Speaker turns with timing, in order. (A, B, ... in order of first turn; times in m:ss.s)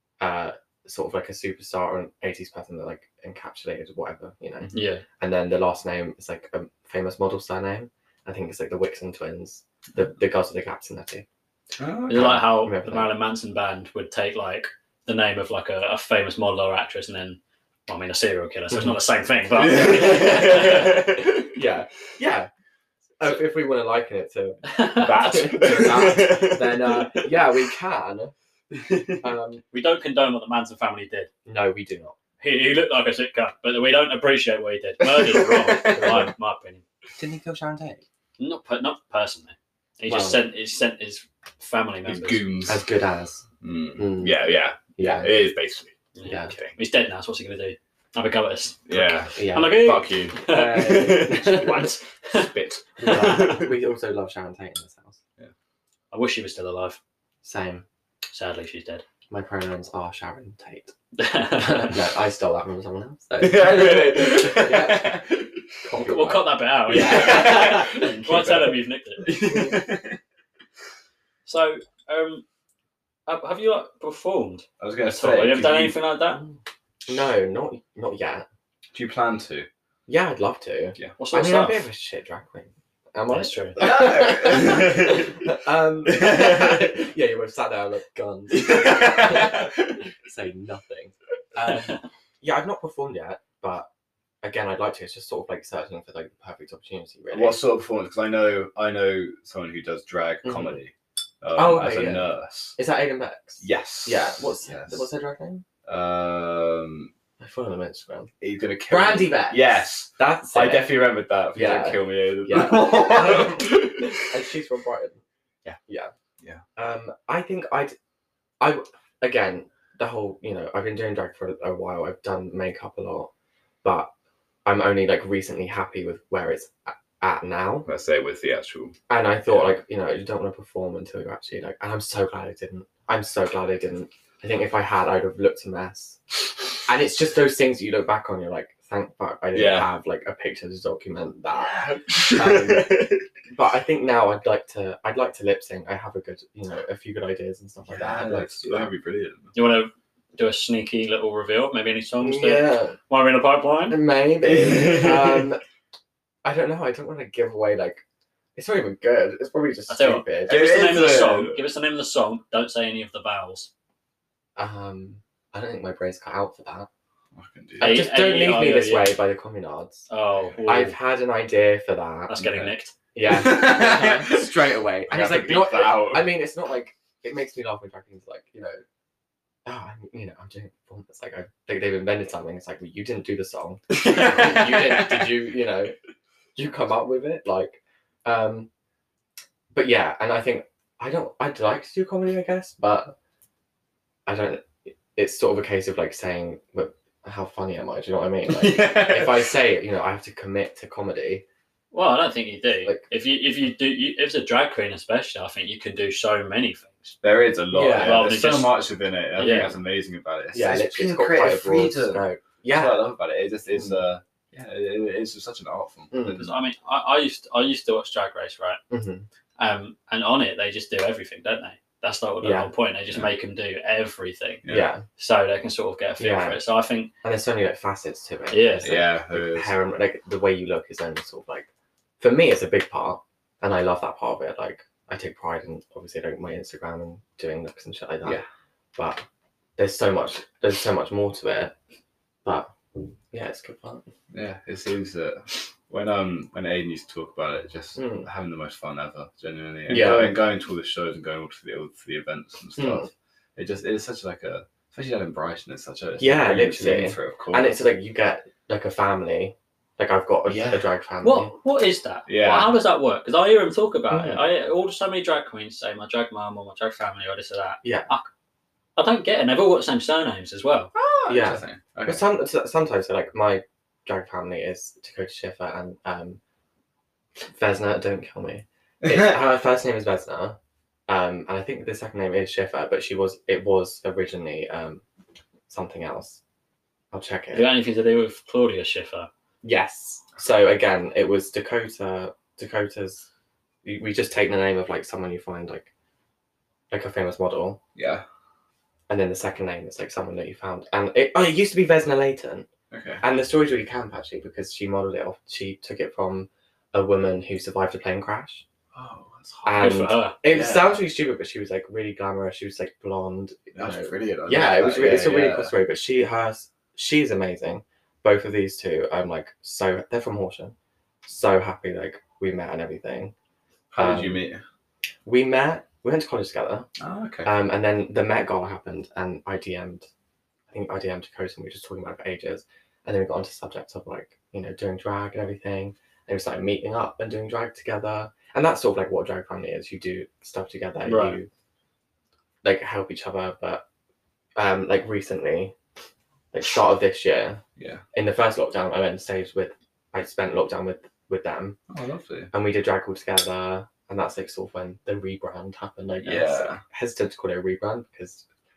0:00.2-0:11.2 A
0:04.7-0:05.0 B
0:11.8-0:12.4 C
0:12.1-0:21.0 B
0:12.1-0:13.1 A
0:19.5-0:21.6 C
0:19.7-0:22.5 A
0:23.2-0:28.3 A
0:24.7-0:25.6 B
0:24.9-0:27.4 C
0:28.7-0:29.2 C
0:29.2-0:29.6 A
0:29.7-0:31.3 B
0:31.4-0:32.2 A
0:32.4-0:36.8 B
0:35.0-0:36.3 C
0:35.9-0:36.3 A
0:37.2-0:38.0 A
0:38.4-0:42.4 B
0:40.1-0:40.4 A
0:42.0-0:42.8 C
0:42.6-0:43.4 A
0:43.6-0:46.8 C
0:44.0-0:44.4 A
0:45.0-0:45.3 A
0:46.1-0:52.5 B
0:46.2-0:46.5 A
0:48.9-0:53.7 C
0:49.4-0:51.9 A
0:53.0-0:55.2 A
0:53.0-0:53.6 B
0:56.1-0:57.0 B
0:57.4-0:57.8 A
0:58.3-0:59.0 B
0:59.3-1:00.9 A
1:01.2-1:02.0 B
1:01.5-1:05.2 A
1:03.4-1:05.8 C
1:05.8-1:08.1 A
1:05.9-1:09.3 B
1:06.9-1:10.2 C
1:09.4-1:09.7 A
1:11.4-1:12.4 B
1:13.3-1:16.4 B
1:14.8-1:16.0 C
1:17.1-1:18.4 A
1:18.9-1:19.7 C
1:20.1-1:33.9 A
1:21.2-1:21.8 B
1:23.3-1:23.9 B
1:23.8-1:25.5 C
1:26.0-1:26.9 C
1:28.5-1:30.1 C
1:34.4-1:37.6 A
1:37.3-1:42.8 C
1:40.4-1:40.8 A
1:41.5-1:45.6 A
1:43.6-1:45.1 C
1:45.8-1:47.1 C
1:47.4-1:48.3 A
1:48.4-1:54.2 C
1:48.9-1:50.9 A
1:51.5-1:55.2 A
1:55.9-1:56.1 A
1:56.8-1:57.9 A
1:58.6-2:03.3 A
2:03.8-2:04.1 A
2:04.6-2:07.9 A
2:07.8-2:09.0 C
2:09.1-2:16.2 A
2:16.8-2:28.9 A
2:19.5-2:19.9 C
2:21.5-2:23.2 C
2:27.8-2:29.6 C
2:29.5-2:34.0 B
2:32.2-2:33.0 A
2:33.9-2:35.6 A
2:34.4-2:35.5 C
2:36.4-2:38.0 A
2:38.5-2:40.6 A
2:39.9-2:43.7 B
2:40.5-2:41.6 C
2:44.6-2:46.9 A
2:47.3-2:48.0 C
2:47.8-2:49.2 B
2:47.8-2:50.1 A
2:50.1-2:51.0 B
2:50.6-2:52.6 A
2:52.3-2:52.9 B
2:53.1-2:58.8 A
2:53.2-2:56.3 C
2:59.6-3:05.9 A
3:03.9-3:05.6 C
3:06.6-3:08.7 A
3:09.7-3:13.1 A
3:14.2-3:21.4 A
3:18.5-3:19.5 C
3:21.9-3:27.2 B
3:27.2-3:36.5 C
3:27.7-3:28.3 A
3:28.0-3:28.8 B
3:29.4-3:29.7 B
3:30.5-3:33.1 A
3:36.1-3:36.5 A
3:36.3-3:38.8 B
3:38.9-3:39.3 A
3:39.6-3:44.6 B
3:42.4-3:42.7 A
3:44.7-3:45.0 A
3:45.2-3:47.1 B
3:46.2-3:46.6 A
3:47.2-3:51.7 A
3:48.5-3:48.9 B
3:48.8-3:49.7 C
3:52.2-3:58.4 A
3:59.0-3:59.2 A
3:59.8-4:01.7 A
4:02.4-4:02.7 A
4:03.3-4:04.1 A
4:04.3-4:17.7 C
4:08.0-4:08.3 A
4:09.9-4:10.4 A
4:12.8-4:13.1 A
4:16.2-4:21.5 A
4:20.4-4:20.9 C
4:21.2-4:28.3 B
4:22.3-4:22.7 C
4:24.1-4:24.5 A
4:27.8-4:28.1 A
4:29.0-4:30.9 B
4:30.9-4:32.2 C
4:31.3-4:36.4 A
4:37.5-4:45.0 A
4:39.0-4:39.3 C
4:45.7-4:46.4 A
4:47.1-4:47.7 A
4:47.5-4:49.3 B
4:49.6-4:53.2 A
4:53.8-4:55.9 A
4:56.9-4:57.8 A
4:58.0-4:58.2 C
4:59.1-5:02.7 A
5:02.9-5:03.2 C
5:03.2-5:08.6 A
5:08.9-5:11.0 C
5:09.6-5:23.3 A
5:09.8-5:10.4 B
5:13.7-5:15.7 C
5:23.9-5:24.6 C
5:24.0-5:24.4 A
5:25.2-5:26.9 A
5:27.0-5:27.5 C
5:27.4-5:30.1 A
5:30.7-5:41.5 A
5:41.0-5:41.4 B
5:42.6-5:43.8 A
5:44.6-5:45.8 A
5:46.5-5:47.6 A
5:47.8-5:48.0 C
5:48.1-5:51.8 A
5:51.9-5:52.5 C
5:52.5-5:58.4 A
5:56.2-5:56.8 C